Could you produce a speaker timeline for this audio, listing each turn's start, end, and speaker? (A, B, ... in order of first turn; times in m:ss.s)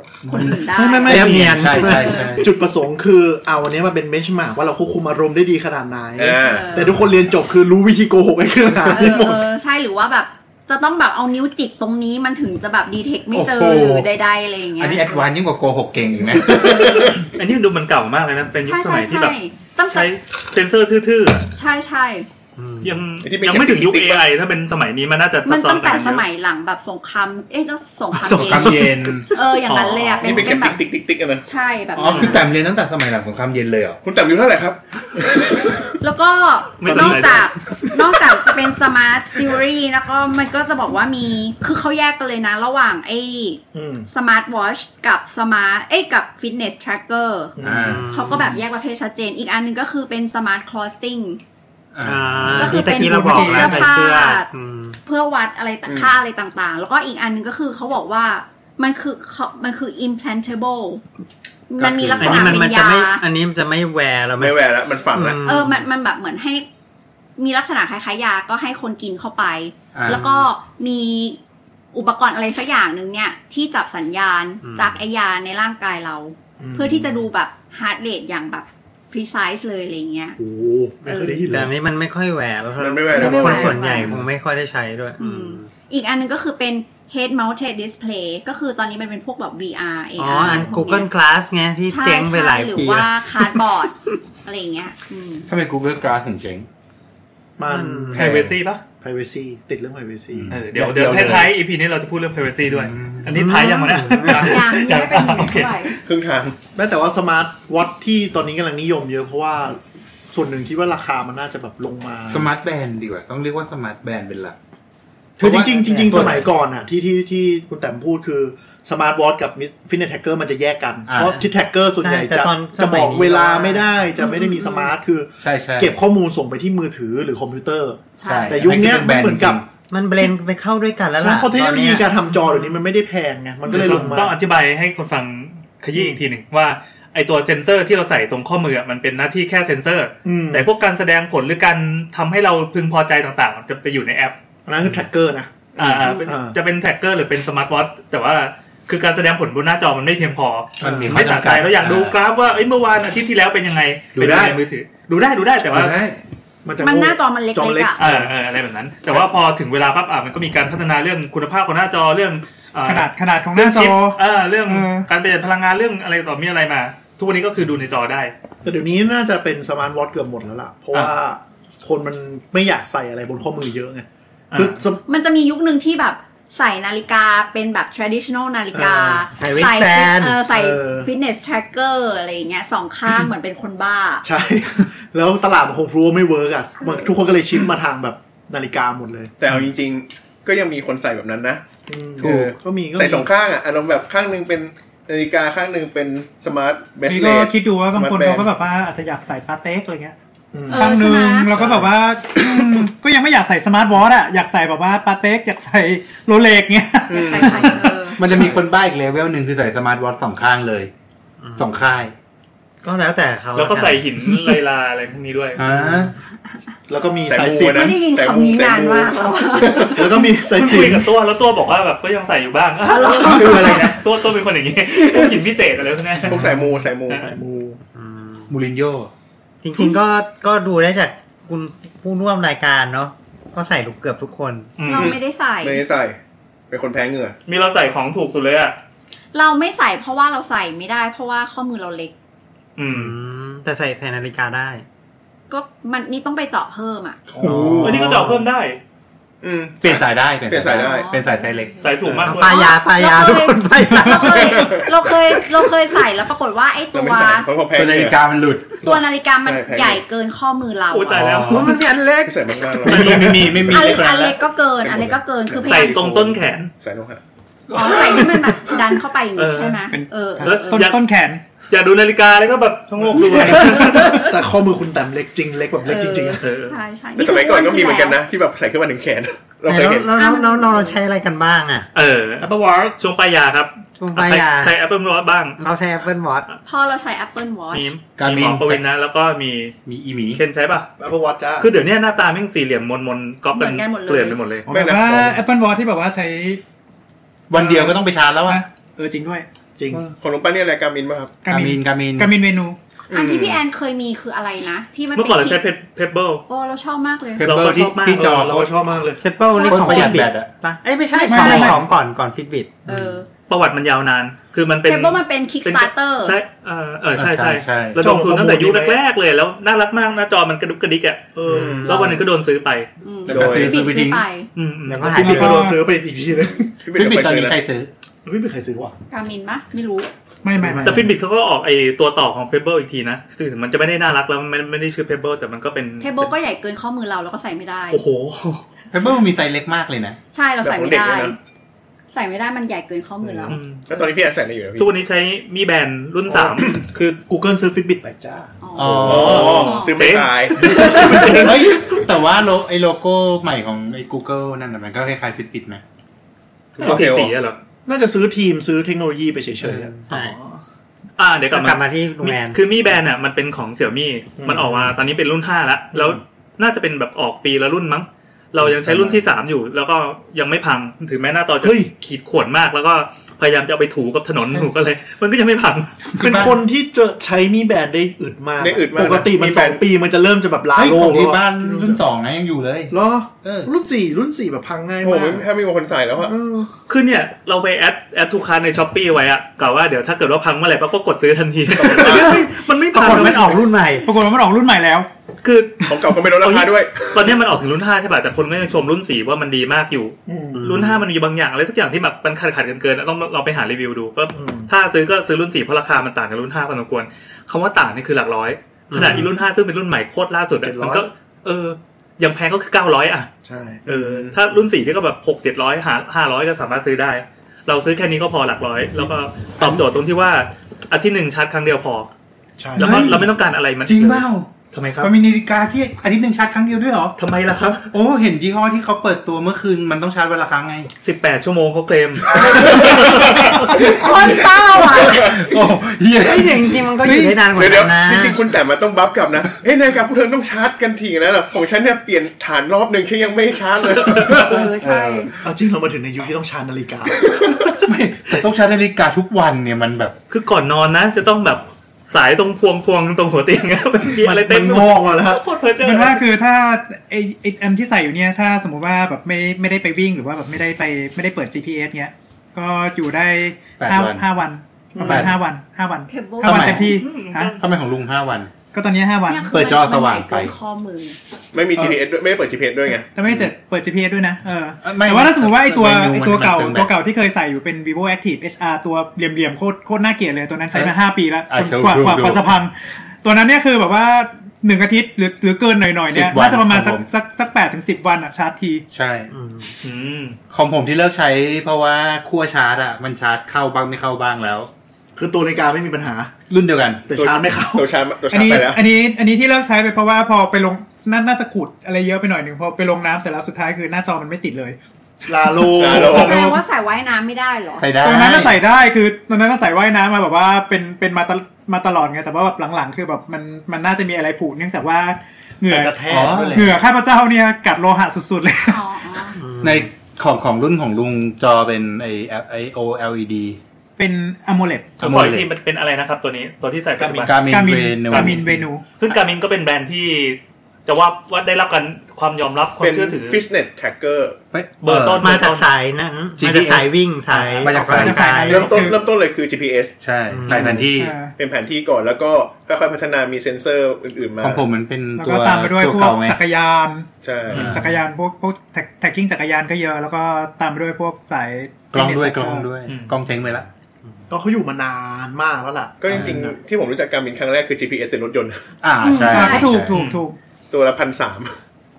0:00.2-0:02.4 A
0:00.3-0:02.4 B
0:00.7-0:09.5 C
0:01.0-0:02.4 D
0:06.2-0:06.8 E
0:06.3-0:07.0 B
0:08.9-0:15.2 B
0:13.3-0:14.1 A
0:14.8-0:17.0 A
0:16.8-0:17.1 E
0:17.3-0:19.3 F
0:18.6-0:20.1 B
0:19.9-0:21.5 F
0:21.5-0:22.3 B
0:22.6-0:23.0 D
0:22.8-0:26.2 F
0:23.2-0:24.3 E
0:25.4-0:30.8 B
0:28.2-0:29.3 A
0:29.7-0:30.1 F
0:30.2-0:31.4 E
0:31.4-0:32.5 B
0:31.9-0:34.0 A
0:34.0-0:35.9 E
0:36.0-0:51.4 B
0:36.8-0:37.5 F
0:36.9-0:37.2 C
0:43.7-0:44.1 C
0:47.6-0:48.0 C
0:47.6-0:48.2 A
0:47.8-0:48.5 D
0:51.9-0:52.8 A
0:52.0-0:55.0 D
0:52.5-0:54.5 B
0:52.7-0:53.9 G
0:53.4-0:53.7 A
0:55.0-1:01.0 B
0:55.8-0:56.1 E
1:01.7-1:03.2 B
1:01.8-1:02.6 A
1:02.2-1:05.8 D
1:04.4-1:05.4 E
1:05.4-1:06.6 B
1:07.4-1:11.4 B
1:09.9-1:10.5 A
1:11.9-1:20.4 B
1:14.6-1:15.0 D
1:16.6-1:17.3 C
1:20.4-1:21.7 C
1:21.1-1:21.4 B
1:21.4-1:25.7 D
1:22.8-1:23.8 E
1:23.1-1:24.2 B
1:23.7-1:24.2 C
1:25.2-1:31.1 B
1:30.2-1:33.6 D
1:30.5-1:30.8 C
1:31.9-1:35.5 B
1:35.5-1:36.7 A
1:37.6-1:40.6 C
1:37.7-1:38.2 D
1:38.1-1:38.8 F
1:40.4-1:41.5 A
1:40.5-1:46.0 F
1:42.7-1:43.5 A
1:43.3-1:44.5 D
1:44.2-1:44.6 C
1:44.3-1:46.0 B
1:46.0-1:46.6 E
1:46.7-1:49.8 C
1:50.3-1:52.5 C
1:52.3-1:54.5 A
1:55.4-1:56.5 A
1:55.4-2:09.6 C
1:55.8-1:56.4 D
2:01.1-2:01.4 A
2:02.0-2:03.9 D
2:04.2-2:04.9 B
2:05.4-2:05.9 A
2:08.2-2:08.7 B
2:08.2-2:09.7 A
2:09.9-2:12.1 D
2:11.2-2:14.4 C
2:13.7-2:24.4 F
2:15.9-2:16.2 C
2:20.2-2:20.7 C
2:24.6-2:26.6 C
2:25.8-2:35.9 F
2:30.8-2:31.2 C
2:30.8-2:32.2 A
2:34.1-2:34.6 A
2:35.7-2:36.2 A
2:36.6-2:38.3 C
2:36.8-2:38.0 B
2:38.0-2:48.3 F
2:42.8-2:45.1 G
2:48.6-2:55.0 C
2:54.5-2:54.8 F
2:55.1-3:04.2 B
2:58.7-2:59.3 C
2:59.3-3:00.4 D
3:00.5-3:01.1 C
3:04.2-3:09.3 C
3:09.4-3:11.6 E
3:11.9-3:13.3 C
3:12.2-3:18.5 E
3:12.2-3:12.5 A
3:17.0-3:20.1 G
3:20.5-3:20.9 C
3:20.7-3:21.7 B
3:20.7-3:27.9 G
3:21.6-3:21.8 C
3:27.1-3:27.9 E
3:27.2-3:28.3 B
3:28.2-3:30.9 A
3:31.4-3:31.8 D
3:31.6-3:32.1 A
3:32.8-3:34.1 D
3:33.6-3:35.6 F
3:35.6-3:36.1 A
3:35.7-3:36.1 D
3:36.9-3:37.9 C
3:37.3-3:40.0 E
3:37.7-3:40.2 B
3:39.7-3:41.1 C
3:40.5-3:46.5 F
3:42.8-3:44.0 B
3:46.2-3:47.3 E
3:46.3-3:47.8 C
3:47.9-3:48.5 D
3:48.5-3:49.1 A
3:49.6-3:54.7 D
3:54.8-3:55.2 F
3:54.8-3:55.8 B
3:54.9-3:56.2 E
3:56.7-3:57.3 E
3:57.5-3:58.8 F
3:59.3-4:02.1 B
4:02.8-4:03.1 F
4:02.9-4:04.8 D
4:05.5-4:07.2 B
4:07.3-4:08.4 C
4:07.4-4:08.2 A
4:07.4-4:07.9 D
4:07.8-4:08.8 F
4:09.4-4:11.1 E
4:09.8-4:11.8 A
4:10.7-4:17.5 B
4:11.8-4:12.7 F
4:12.2-4:14.6 D
4:13.8-4:14.6 G
4:14.3-4:14.9 E
4:16.9-4:18.2 E
4:17.7-4:18.8 A
4:18.8-4:21.2 B
4:18.8-4:20.0 E
4:20.9-4:21.8 F
4:21.1-4:21.7 A
4:21.4-4:22.5 D
4:22.2-4:24.0 E
4:22.8-4:24.4 A
4:23.6-4:26.2 B
4:24.8-4:25.9 E
4:25.6-4:26.7 F
4:26.8-4:27.2 E
4:27.7-4:30.9 B
4:27.9-4:28.3 A
4:29.4-4:29.8 F
4:29.9-4:31.4 G
4:30.4-4:31.0 F
4:31.7-4:34.3 F
4:33.1-4:36.4 C
4:33.4-4:34.2 B
4:35.8-4:38.2 B
4:36.4-4:36.8 F
4:37.2-4:40.1 E
4:39.6-4:41.9 D
4:40.1-4:41.0 B
4:41.9-4:45.6 F
4:42.4-4:43.0 C
4:44.0-4:44.8 D
4:45.6-4:46.4 D
4:46.6-4:47.9 B
4:47.7-4:49.8 F
4:48.1-4:48.8 A
4:49.8-4:50.4 A
4:50.3-4:50.9 F
4:51.0-4:51.7 C
4:51.6-4:54.7 F
4:53.5-4:54.4 B
4:54.6-4:56.6 G
4:54.7-4:55.4 E
4:57.5-4:58.6 A
4:57.5-4:59.4 G
4:59.8-5:00.0 C
5:00.2-5:01.4 E
5:01.4-5:02.8 G
5:01.5-5:02.3 A
5:03.1-5:03.6 E
5:03.1-5:05.6 B
5:05.1-5:06.4 F
5:06.5-5:07.5 B
5:07.4-5:08.7 A
5:07.4-5:08.4 F
5:08.1-5:09.2 C
5:09.2-5:12.9 D
5:09.5-5:10.3 B
5:09.6-5:10.5 A
5:11.1-5:11.8 B
5:11.3-5:11.8 G
5:12.9-5:13.3 B
5:13.5-5:22.9 F
5:14.8-5:16.4 B
5:17.2-5:18.1 A
5:18.0-5:19.0 C
5:21.3-5:22.1 C
5:21.5-5:22.1 D
5:21.5-5:22.0 E
5:23.0-5:24.5 B
5:23.3-5:24.2 A
5:23.3-5:23.8 E
5:24.6-5:25.5 F
5:24.8-5:25.7 D
5:25.0-5:26.8 C
5:25.1-5:25.8 G
5:26.8-5:27.6 E
5:26.9-5:27.9 A
5:28.2-5:28.9 C
5:29.1-5:30.1 B
5:30.4-5:30.9 G
5:30.6-5:31.1 C
5:30.7-5:36.3 F
5:36.0-5:38.0 B
5:37.9-5:38.6 F
5:38.9-5:40.2 A
5:40.3-5:41.4 B
5:40.6-5:41.3 E
5:42.1-5:43.6 B
5:43.2-5:43.6 C
5:43.5-5:43.8 F
5:43.9-5:44.9 E
5:44.8-5:47.2 F
5:46.3-5:46.7 C
5:47.3-5:49.7 C
5:48.6-5:50.2 B
5:48.7-5:49.6 A
5:49.0-5:51.3 E
5:49.0-5:51.7 F
5:50.6-5:51.9 C
5:50.8-5:55.8 A
5:56.8-5:57.3 E
5:56.8-5:57.6 F
5:57.8-5:59.9 C
5:59.6-6:00.3 D
6:00.1-6:00.6 F
6:01.2-6:16.0 F
6:01.5-6:02.6 D
6:04.4-6:04.9 C
6:08.6-6:09.2 C
6:11.6-6:11.9 C
6:16.2-6:16.6 A
6:16.2-6:22.0 C
6:18.6-6:19.8 E
6:20.8-6:23.7 A
6:22.9-6:25.4 C
6:25.0-6:26.3 E
6:26.2-6:26.7 C
6:26.9-6:33.6 F
6:31.8-6:32.5 E
6:32.1-6:32.4 D
6:32.9-6:34.1 D
6:34.0-6:35.1 G
6:35.4-6:53.3 F
6:35.9-6:37.3 E
6:40.3-6:40.9 C
6:40.5-6:41.0 D
6:44.3-6:44.7 C
6:48.9-6:49.3 D
6:50.6-6:51.1 C
6:53.4-6:54.4 C
6:53.8-7:02.1 F
7:02.6-7:03.2 C
7:02.8-7:05.1 F
7:02.8-7:03.3 A
7:03.8-7:04.5 A
7:05.0-7:07.1 A
7:07.2-7:07.9 F
7:07.9-7:10.9 A
7:11.0-7:12.9 F
7:12.3-7:13.8 A
7:12.5-7:14.0 E
7:13.6-7:15.4 B
7:14.9-7:15.4 E
7:15.0-7:16.8 A
7:16.2-7:18.4 D
7:17.0-7:17.4 G
7:17.5-7:24.6 E
7:24.1-7:25.3 A
7:24.3-7:25.3 B
7:25.4-7:27.4 C
7:27.3-7:27.7 E
7:27.8-7:30.1 A
7:30.3-7:36.3 F
7:34.2-7:35.4 C
7:35.8-7:47.6 G
7:43.8-7:44.2 A
7:44.9-7:45.3 C
7:45.0-7:45.3 A
7:46.1-7:47.0 B
7:46.4-7:46.9 A
7:46.7-7:47.6 F
7:47.6-7:48.5 A
7:48.7-7:49.5 G
7:49.3-7:51.2 B
7:49.5-7:50.5 A
7:51.5-7:53.1 E
7:53.1-8:08.8 G
7:54.8-7:57.0 A
8:01.5-8:02.5 A
8:06.1-8:07.0 A
8:08.9-8:09.3 A
8:09.3-8:09.7 D
8:09.8-8:10.4 F
8:10.5-8:14.7 A
8:15.2-8:16.3 C
8:16.5-8:17.1 A
8:17.1-8:17.9 C
8:17.1-8:18.8 E
8:18.3-8:24.8 G
8:25.2-8:26.5 C
8:25.7-8:26.5 E
8:26.0-8:27.9 B
8:26.0-8:26.5 G
8:27.8-8:28.6 A
8:28.0-8:39.2 G
8:35.7-8:36.8 C
8:36.1-8:36.7 A
8:38.7-8:39.4 B
8:39.4-8:39.9 D
8:39.6-8:43.6 A
8:44.0-8:45.0 G
8:45.0-8:45.5 A
8:45.0-8:47.4 F
8:47.0-8:47.3 C
8:47.1-8:48.6 A
8:47.4-8:48.8 G
8:48.1-8:48.4 F
8:49.0-8:53.4 F
8:52.8-8:54.4 E
8:54.5-8:55.4 A
8:54.8-8:55.7 F
8:55.2-8:58.8 D
8:56.4-8:56.9 A
8:57.3-8:59.0 G
8:57.6-8:58.7 A
8:58.5-9:00.0 E
9:00.0-9:01.2 A
9:00.3-9:00.8 D
9:00.5-9:00.9 C
9:00.9-9:01.3 G
9:01.4-9:04.6 E
9:04.4-9:06.4 A
9:05.2-9:12.7 G
9:07.2-9:07.8 E
9:07.5-9:07.9 A
9:11.9-9:13.6 A
9:12.8-9:13.1 F
9:14.3-9:16.6 C
9:16.0-9:18.7 E
9:16.1-9:16.4 A
9:18.8-9:20.0 A
9:19.0-9:19.8 B
9:19.2-9:20.4 G
9:19.8-9:20.2 F
9:20.7-9:21.6 E